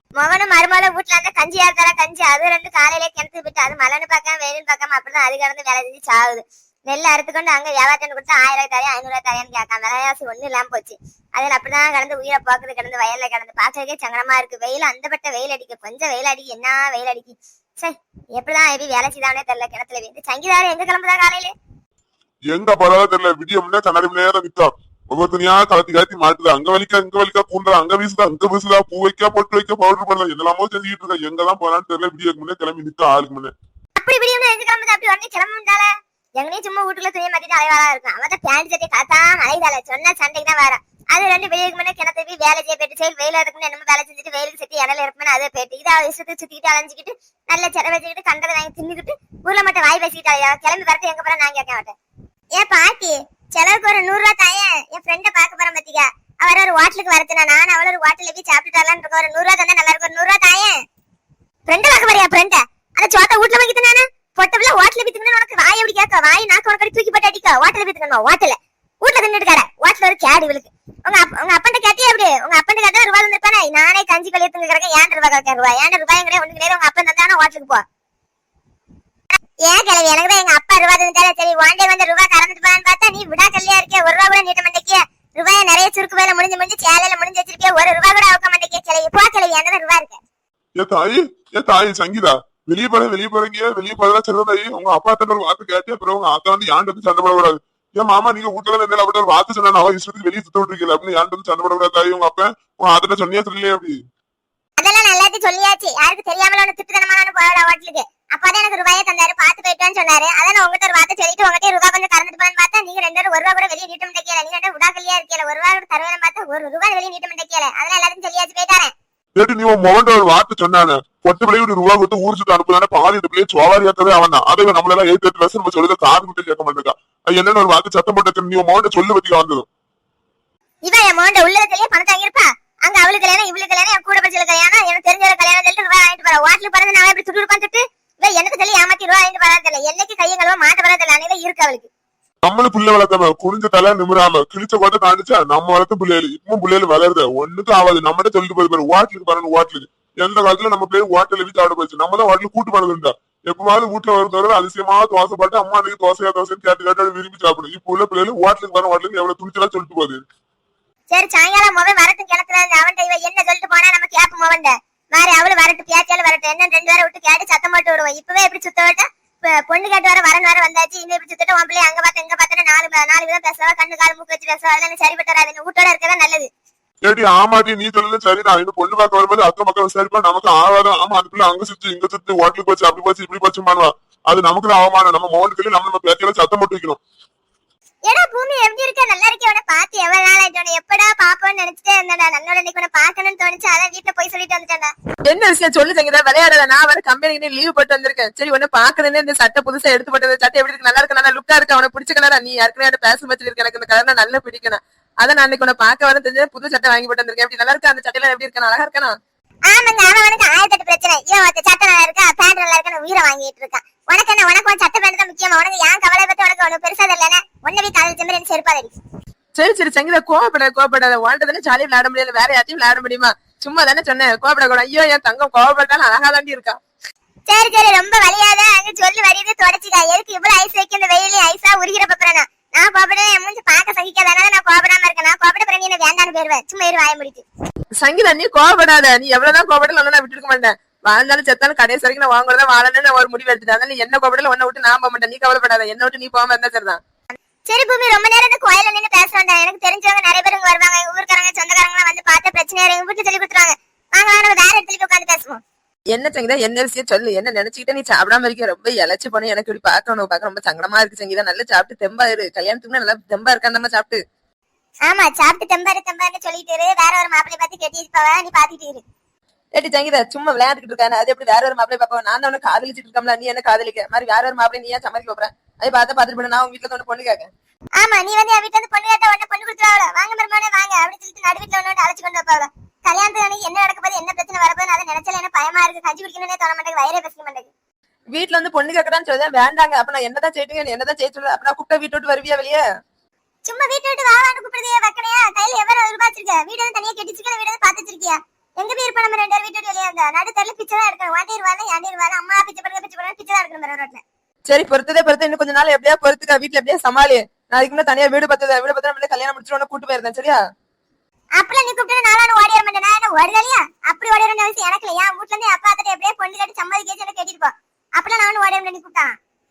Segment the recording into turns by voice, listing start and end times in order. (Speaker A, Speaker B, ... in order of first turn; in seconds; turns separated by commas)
Speaker A: 0.2-21.5, Speaker B: 22.5-33.5, Speaker A: 34.0-52.0, Speaker A: 52.5-60.8, Speaker A: 61.7-77.8, Speaker A: 79.7-90.2, Speaker B: 90.8-104.0, Speaker A: 104.8-118.9, Speaker B: 119.4-129.7, Speaker A: 130.8-141.9, Speaker B: 142.4-160.2, Speaker A: 161.1-176.5, Speaker B: 177.1-187.0, Speaker A: 188.1-194.9, Speaker C: 195.3-209.1, Speaker A: 209.7-219.0, Speaker C: 219.6-226.8, Speaker A: 227.5-237.4, Speaker C: 238.0-247.0, Speaker A: 247.7-255.6, Speaker C: 256.1-264.2, Speaker A: 265.1-269.0, Speaker C: 269.8-277.5, Speaker A: 278.0-287.7, Speaker C: 288.3-292.8, Speaker A: 293.6-304.2, Speaker C: 304.7-310.6, Speaker A: 311.6-319.4